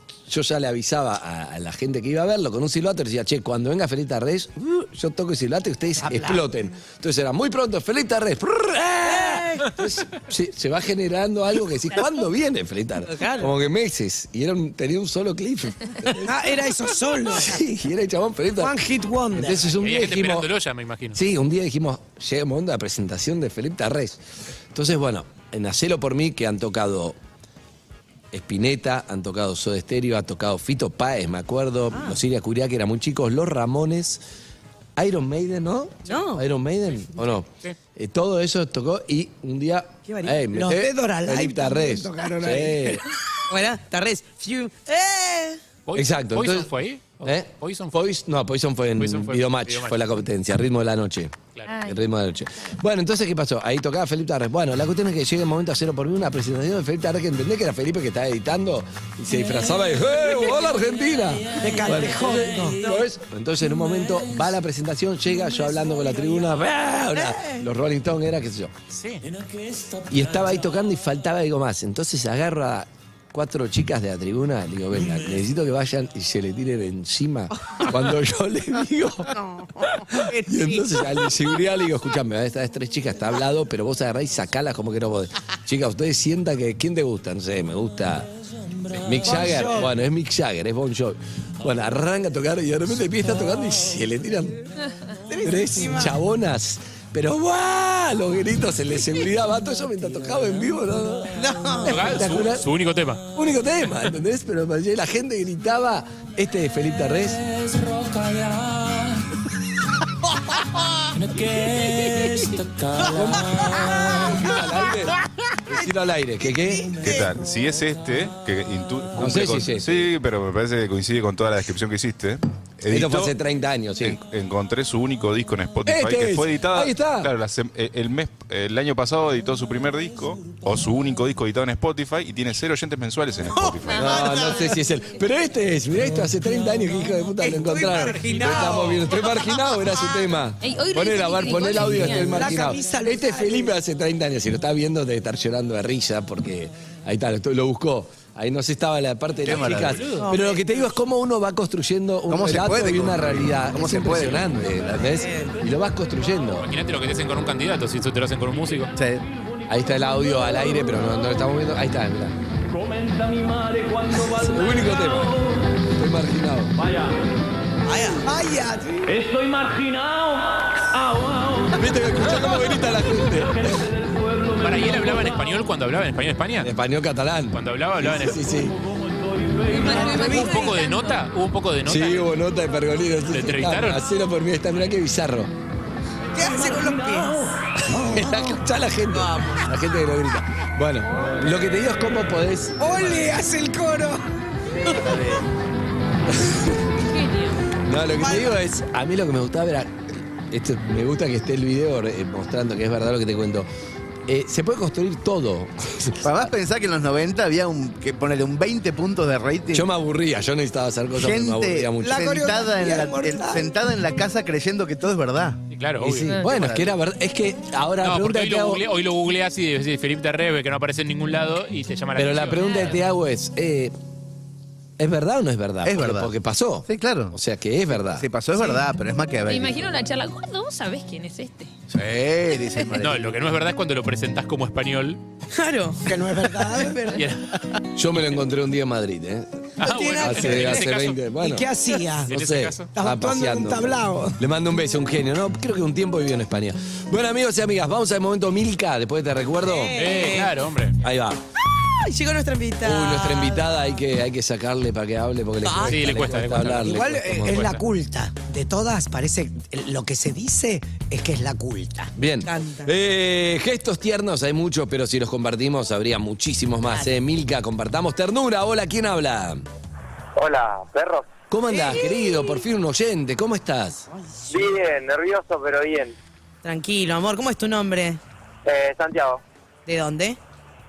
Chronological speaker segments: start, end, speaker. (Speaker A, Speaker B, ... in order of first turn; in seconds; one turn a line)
Speaker A: 0.3-16.4
Speaker B: 6.0-6.4
Speaker C: 9.0-9.7
Speaker C: 13.0-13.5
Speaker B: 16.2-17.6
Speaker A: 17.3-20.5
Speaker B: 18.6-19.6
Speaker D: 19.7-21.2
Speaker A: 21.1-24.2
Speaker A: 24.7-27.2
Speaker A: 28.3-34.2
Speaker C: 31.9-32.2
Speaker A: 35.0-43.1
Speaker C: 36.1-36.5
Speaker C: 40.1-40.5
Speaker B: 40.5-43.1
Speaker C: 43.5-45.6
Speaker D: 45.9-48.0
Speaker A: 45.9-68.7
Speaker D: 49.0-50.1
Speaker E: 51.6-52.0
Speaker B: 61.6-62.8
Speaker C: 67.1-67.6
Speaker D: 68.9-69.2
Speaker A: 70.1-79.3
Speaker C: 79.3-81.2
Speaker A: 80.1-88.3
Speaker A: 89.0-94.7
Speaker B: 89.2-89.9
Speaker C: 95.3-96.2
Speaker A: 95.4-102.7
Speaker D: 101.8-103.2
Speaker A: 103.3-107.4
Speaker A: 113.0-116.9
Speaker F: 117.0-123.3
Speaker A: 119.2-120.1
Speaker A: 122.9-124.2
Speaker F: 124.0-134.3
Speaker A: 125.8-127.3
Speaker C: 133.5-134.6
Speaker E: 133.8-134.8
Speaker A: 133.9-156.7
Speaker C: 137.4-139.5
Speaker D: 138.0-138.7
Speaker E: 140.6-142.6
Speaker B: 142.1-143.7
Speaker G: 149.4-150.0
Speaker C: 150.2-150.7
Speaker G: 152.3-154.5
Speaker C: 154.9-155.5
Speaker D: 156.6-158.9
Speaker G: 158.9-159.2
Speaker A: 159.7-162.3
Speaker A: 164.2-166.7
Speaker C: 167.8-169.1
Speaker A: 171.7-173.8
Speaker D: 174.5-176.7
Speaker A: 176.6-178.8
Speaker D: 177.5-178.4
Speaker E: 179.7-181.2
Speaker C: 179.8-180.7
Speaker D: 179.8-182.3
Speaker A: 181.8-185.5
Speaker D: 183.3-184.1
Speaker C: 186.3-187.5
Speaker B: 186.4-187.0
Speaker A: 187.9-193.2
Speaker C: 189.1-189.6
Speaker B: 192.8-194.3
Speaker A: 196.3-196.8
Speaker E: 197.1-197.6
Speaker A: 197.8-203.7
Speaker C: 198.2-198.6
Speaker A: 204.3-206.5
Speaker G: 206.2-209.9
Speaker A: 209.7-212.2
Speaker G: 211.2-215.6
Speaker B: 212.0-213.7
Speaker D: 215.7-216.3
Speaker A: 216.0-218.8
Speaker G: 216.4-216.9
Speaker D: 218.0-223.0
Speaker A: 222.2-223.9
Speaker A: 225.0-228.2
Speaker G: 225.8-226.3
Speaker G: 226.9-227.3
Speaker G: 228.2-229.9
Speaker E: 229.5-231.7
Speaker G: 231.9-233.4
Speaker D: 233.0-235.2
Speaker C: 235.5-237.2
Speaker B: 236.1-237.2
Speaker D: 237.1-237.5
Speaker A: 237.9-241.7
Speaker D: 239.8-241.3
Speaker C: 239.8-240.8
Speaker B: 241.3-242.3
Speaker D: 242.3-242.9
Speaker A: 242.3-250.4
Speaker B: 242.9-244.4
Speaker C: 249.6-250.5
Speaker D: 249.9-251.0
Speaker A: 251.0-251.4
Speaker C: 251.8-253.8
Speaker A: 252.8-257.7
Speaker C: 255.6-255.9
Speaker D: 255.8-257.8
Speaker B: 256.8-262.1
Speaker A: 262.1-269.6
Speaker C: 262.4-262.9
Speaker H: 270.4-271.3
Speaker A: 271.5-274.1
Speaker C: 271.7-272.6
Speaker C: 274.2-274.7
Speaker H: 274.5-276.1
Speaker C: 276.6-278.2
Speaker H: 278.6-279.4
Speaker C: 279.9-280.4